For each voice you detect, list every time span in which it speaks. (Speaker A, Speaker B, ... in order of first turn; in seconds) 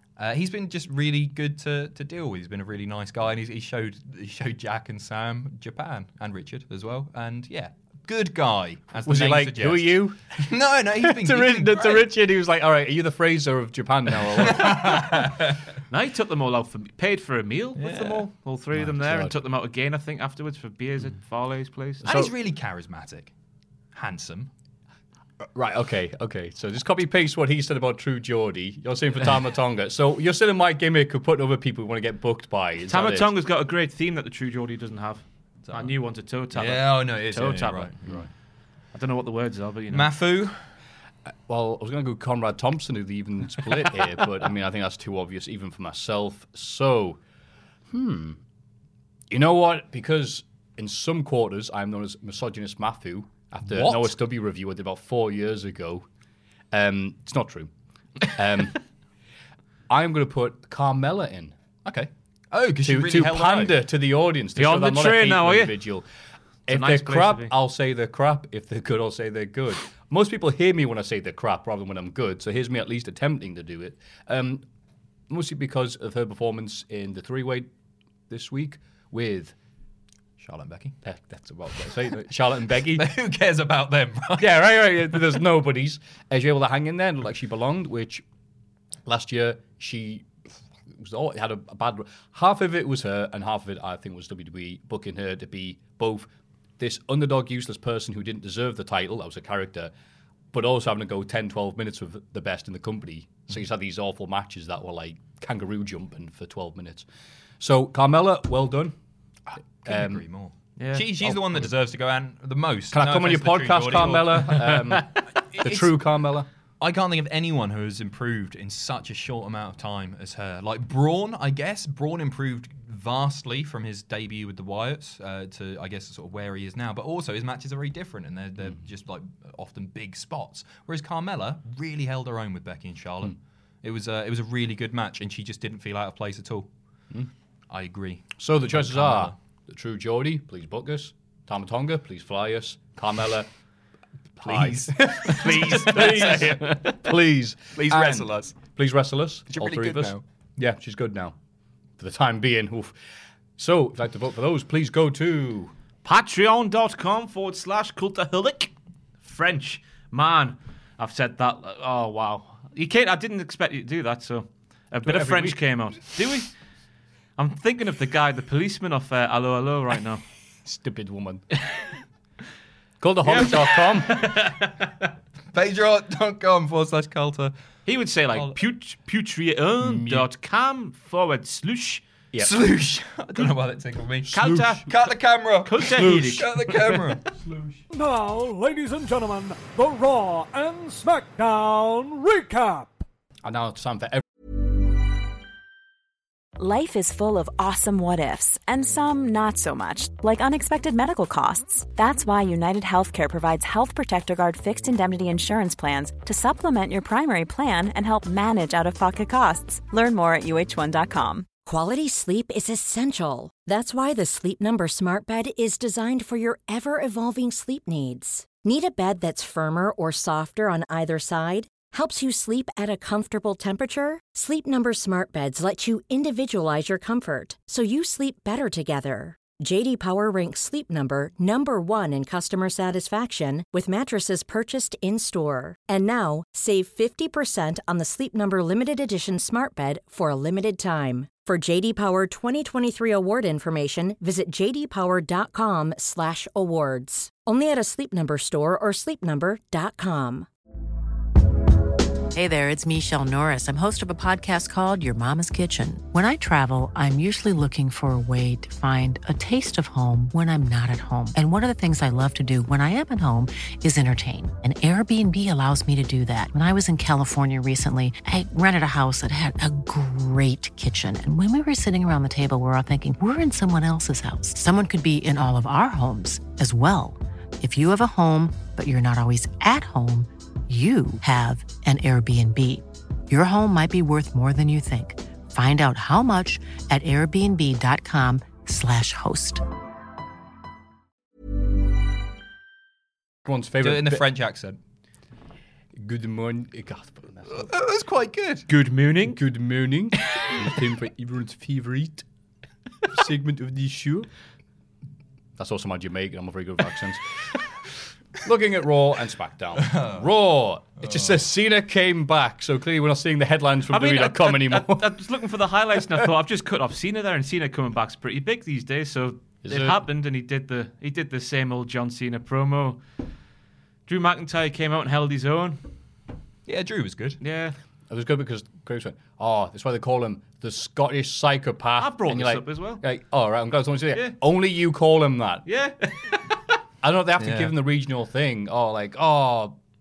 Speaker A: 0.2-12.1, 14.4-15.6, 17.8-18.2, 22.0-23.3, 23.9-24.5, 35.6-35.9, 36.5-38.2, 39.9-40.6, 53.6-54.1, 61.8-63.8, 80.4-81.0, 82.9-84.6, 109.8-114.8, 115.5-115.9, 116.8-136.7, 137.7-139.3, 144.4-146.7, 147.7-148.6, 149.5-150.2, 175.5-177.5, 178.3-178.6, 182.4-187.2, 293.8-294.8, 297.6-298.7, 309.8-310.2, 311.0-311.3, 326.6-327.4, 337.4-337.7
Speaker B: 9.0-15.3, 18.7-19.4, 22.0-22.3, 25.5-33.3, 41.3-47.2, 47.9-48.4, 49.3-56.0, 56.7-57.7, 58.2-58.8, 59.9-61.5, 62.8-66.0, 66.7-74.6, 75.3-77.7, 78.3-79.5, 81.0-83.1, 84.4-88.2, 89.0-99.9, 100.5-107.1, 107.6-108.9, 109.8-110.2, 112.9-116.5, 138.4-143.5, 144.4-151.3, 152.0-152.9, 153.6-155.7, 165.0-165.6, 170.6-171.4, 173.0-174.2, 179.8-180.2, 184.2-184.8, 187.4-187.8, 193.4-194.2, 293.4-294.2, 295.9-297.7, 299.3-302.2, 303.1-304.3, 305.6-307.6, 308.3-315.1, 319.6-320.0, 328.1-335.6, 337.0-339.7
Speaker C: 15.9-22.1, 32.9-37.9, 38.9-40.1, 64.5-65.7, 66.7-67.5, 110.8-111.1, 156.0-166.5, 167.4-170.2, 173.3-174.9, 177.9-182.0, 184.3-184.9, 185.6-186.9, 298.7-299.4, 313.9-323.0, 324.1-325.8, 327.4-327.8, 332.0-333.0, 335.6-336.6
Speaker D: 187.9-193.0
Speaker E: 196.6-211.5
Speaker F: 211.6-250.5
Speaker G: 252.3-289.6